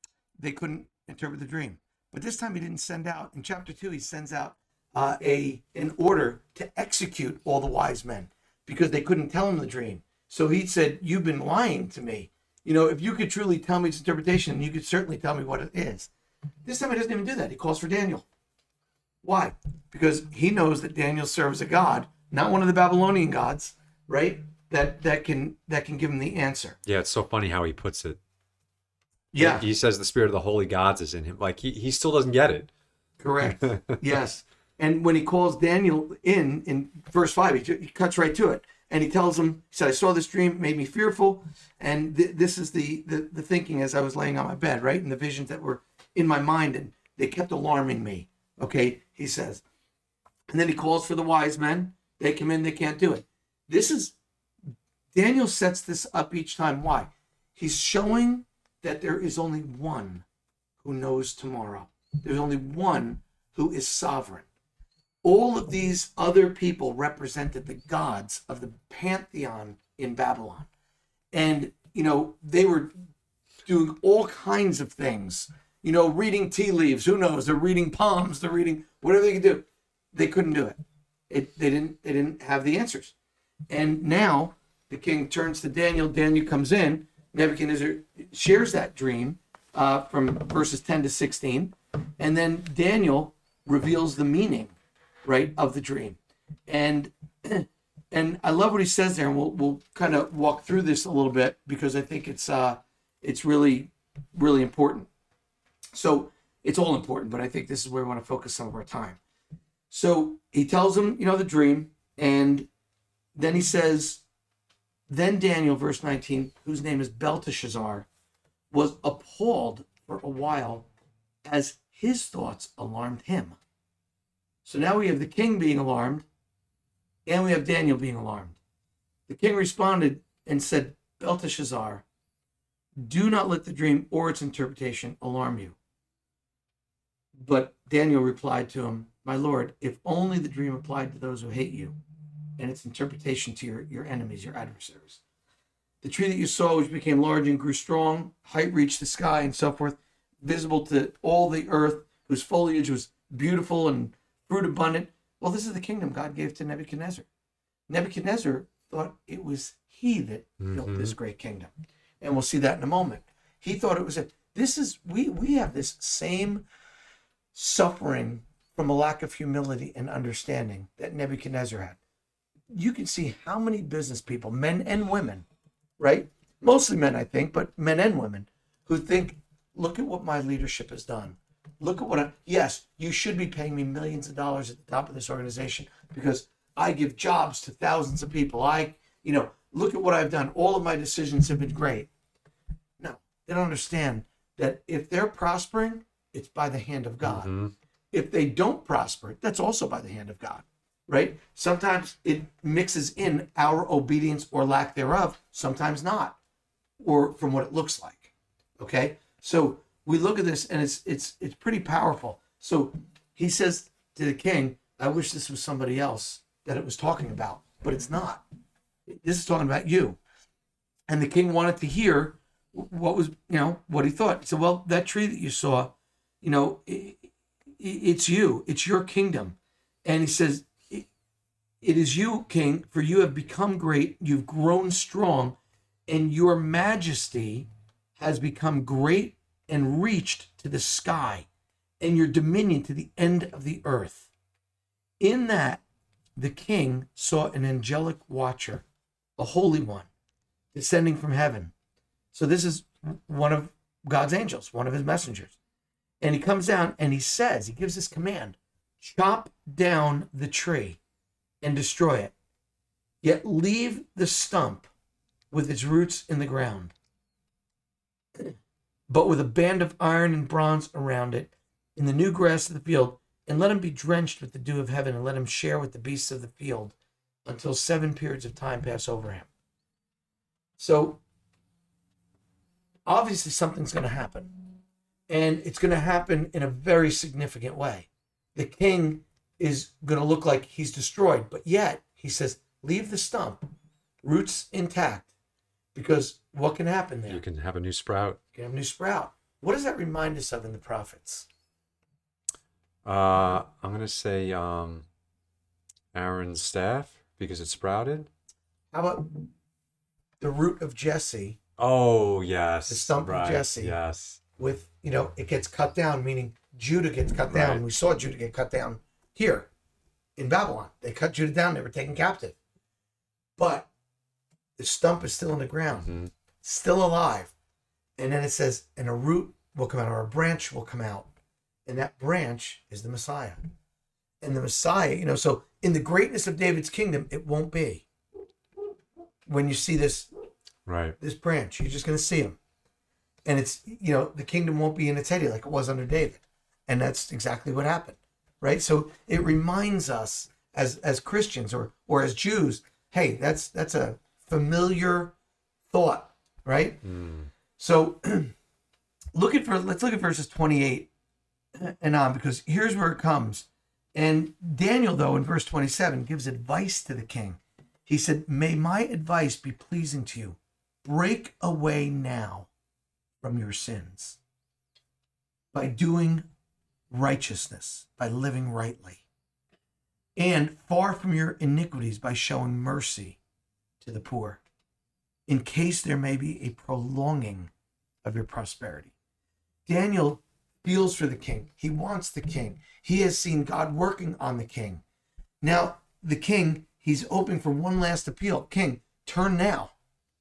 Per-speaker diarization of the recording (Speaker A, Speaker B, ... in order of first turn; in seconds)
Speaker A: 0.4-16.1, 16.6-18.2, 19.2-26.8, 29.3-29.6, 33.2-49.6, 50.5-54.2, 55.1-60.2, 60.8-64.5, 65.2-70.7, 71.3-72.9, 73.7-80.8, 81.3-83.1, 83.7-94.7, 95.2-105.1, 105.9-109.2, 109.9-112.7, 113.4-114.2, 115.1-118.1, 118.7-120.9, 121.5-123.6, 124.7-126.3, 127.3-128.6, 129.3-132.1, 133.0-135.8, 137.4-142.0, 142.6-145.2, 146.0-157.3, 157.9-166.7, 167.5-172.0, 172.7-175.5, 176.0-192.1, 193.0-197.5, 198.1-206.4, 207.0-218.4, 219.1-220.2, 221.1-231.1, 231.8-241.5, 242.0-244.3, 245.2-245.8, 246.4-248.8, 249.4-250.1, 250.7-251.7, 252.3-255.6, 256.2-261.0, 261.6-262.3, 263.2-264.9, 265.5-266.9, 269.1-279.5, 280.8-281.2, 283.1-284.5, 285.3-293.6, 294.2-295.3, 295.9-297.4, 298.6-301.5, 308.9-309.5, 310.4-311.6, 312.9-314.0, 314.6-319.7, 320.4-322.6, 323.6-323.9, 324.8-326.1, 326.6-327.5, 328.2-331.3, 331.9-333.6, 334.4-338.1, 339.5-340.3, 341.2-342.6, 343.5-355.4, 355.9-357.0, 357.8-358.5, 359.4-361.1, 361.8-372.7, 373.4-374.4, 375.7-376.5, 377.1-379.2, 380.4-383.4, 384.0-384.6, 385.5-387.7, 388.2-389.1, 389.9-395.0, 395.6-399.9
Speaker B: 26.9-28.2, 29.4-32.7, 33.6-34.0, 160.6-161.2, 197.2-197.7, 297.3-298.4, 303.1-305.1, 306.1-308.3, 311.8-314.4, 317.5-317.8, 326.0-326.3, 340.9-341.2, 357.0-357.5